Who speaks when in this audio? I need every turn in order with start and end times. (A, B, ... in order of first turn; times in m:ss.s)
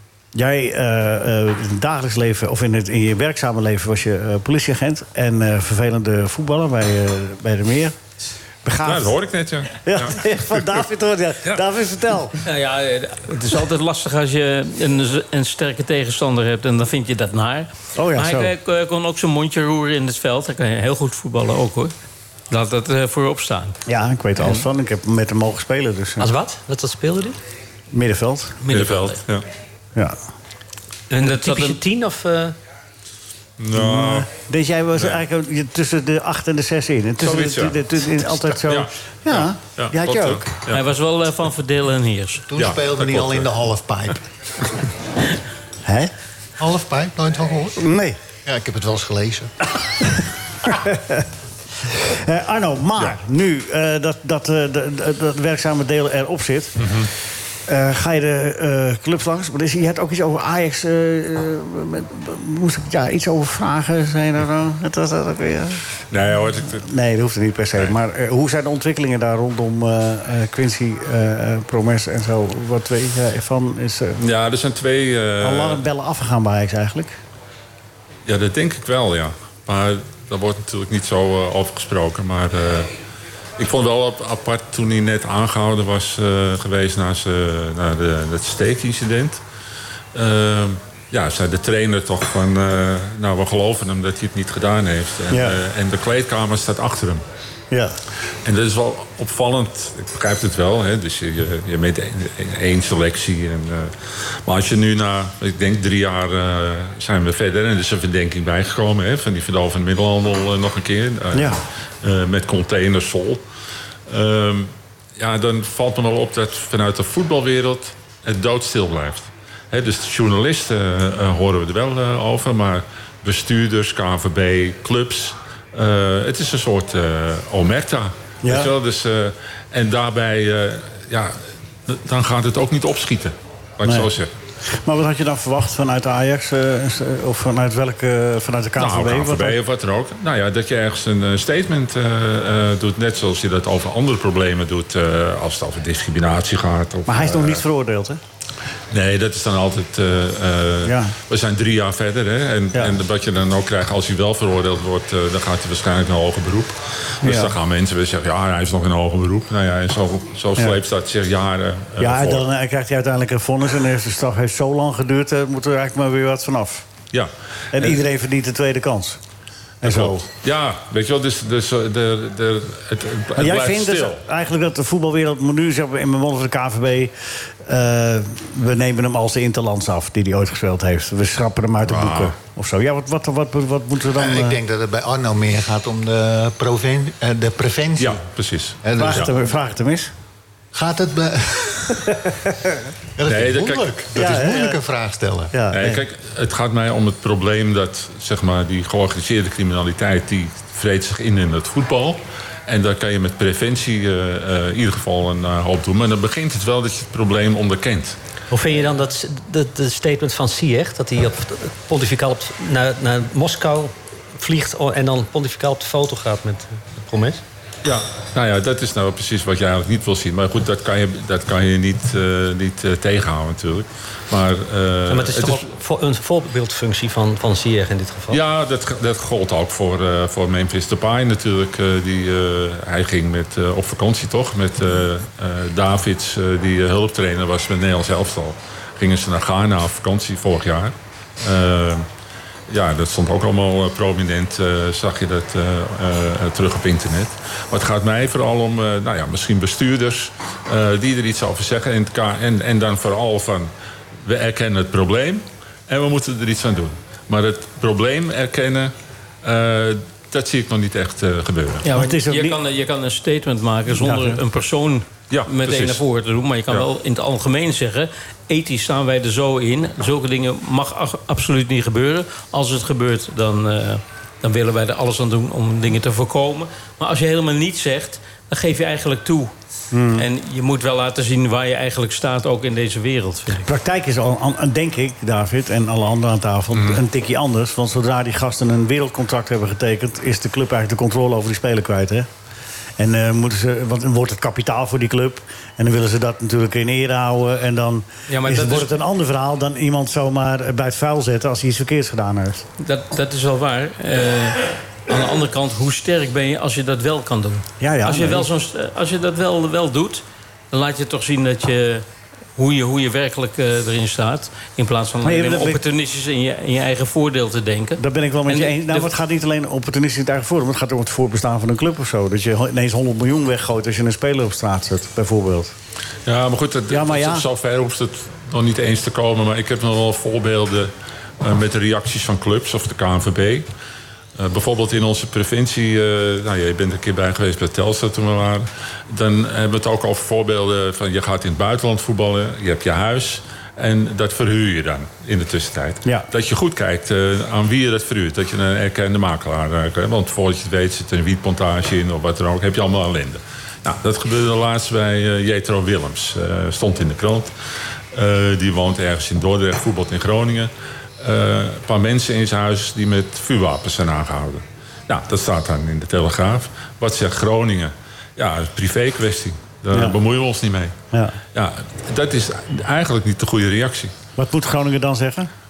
0:00.3-0:08.0 A
0:08.6-0:09.2 A
0:08.8-0:10.3 B
0:09.8-0:12.4 A
0:12.4-0:21.9 C
0:18.0-0:18.5 A
0:22.5-0:23.8 C
0:23.9-0:26.3 A
0:26.2-0:27.4 D
0:27.9-0:28.6 A
0:28.6-0:29.2 C
0:28.7-0:29.4 B
0:31.1-0:32.6 D
0:31.2-0:31.8 C
0:33.6-0:34.3 B
0:33.7-0:40.4 A
0:37.2-0:40.8 B
0:40.7-0:42.5 C
0:42.5-0:44.2 E
0:42.6-0:43.5 B
0:45.8-0:46.1 A
0:46.6-0:47.8 E
0:47.8-0:48.2 A
0:48.4-0:49.5 E
0:50.6-0:51.2 A
0:52.0-0:56.8 A
0:57.7-1:06.0 A
1:06.1-1:06.8 B
1:06.7-1:14.2 A
1:14.2-1:15.8 B
1:15.4-1:17.2 A
1:18.2-1:22.9 B
1:23.6-1:29.4 B
1:30.1-1:37.2 B
1:35.3-1:35.6 A
1:38.4-1:53.4 B
1:51.3-1:51.6 A
1:54.1-2:14.3 B
2:08.4-2:08.7 A
2:14.7-2:19.6 A
2:18.8-2:27.6 B
2:27.1-2:28.2 A
2:28.9-2:42.4 B
2:30.8-2:31.1 A
2:37.2-2:37.5 A
2:42.0-2:46.8 A
2:47.1-2:48.0 B
2:47.7-2:49.2 A
2:49.8-2:50.2 A
2:49.8-2:54.2 B
2:53.4-2:57.1 A
2:57.6-3:04.6 A
3:01.8-3:02.3 B
3:04.2-3:08.2 E
3:08.0-3:09.3 B
3:08.8-3:09.2 E
3:09.0-3:10.1 A
3:10.7-3:12.0 E
3:13.2-3:15.5 E
3:13.2-3:14.0 B
3:14.1-3:14.8 A
3:15.5-3:16.0 A
3:15.7-3:28.2 B
3:28.5-3:37.4 D
3:37.8-3:45.7 B
3:45.1-3:48.4 D
3:48.3-4:02.1 B
4:02.7-4:13.7 B
4:14.2-4:21.8 B
4:21.8-4:39.5 C
4:21.9-4:22.6 A
4:24.0-4:24.4 A
4:25.3-4:26.0 B
4:39.9-4:40.2 A
4:40.1-4:43.6 C
4:43.6-4:52.3 A
4:53.0-5:02.6 A
4:58.3-4:58.9 C
5:02.8-5:12.0 C
5:07.8-5:08.5 A
5:12.6-5:19.1 C
5:15.2-5:15.8 A
5:18.0-5:25.7 A
5:26.2-5:33.6 B
5:26.9-5:27.4 A
5:34.4-5:57.5 B
5:58.1-6:10.9 B
6:09.9-6:10.2 A
6:11.5-6:14.1 B
6:14.4-6:15.5 A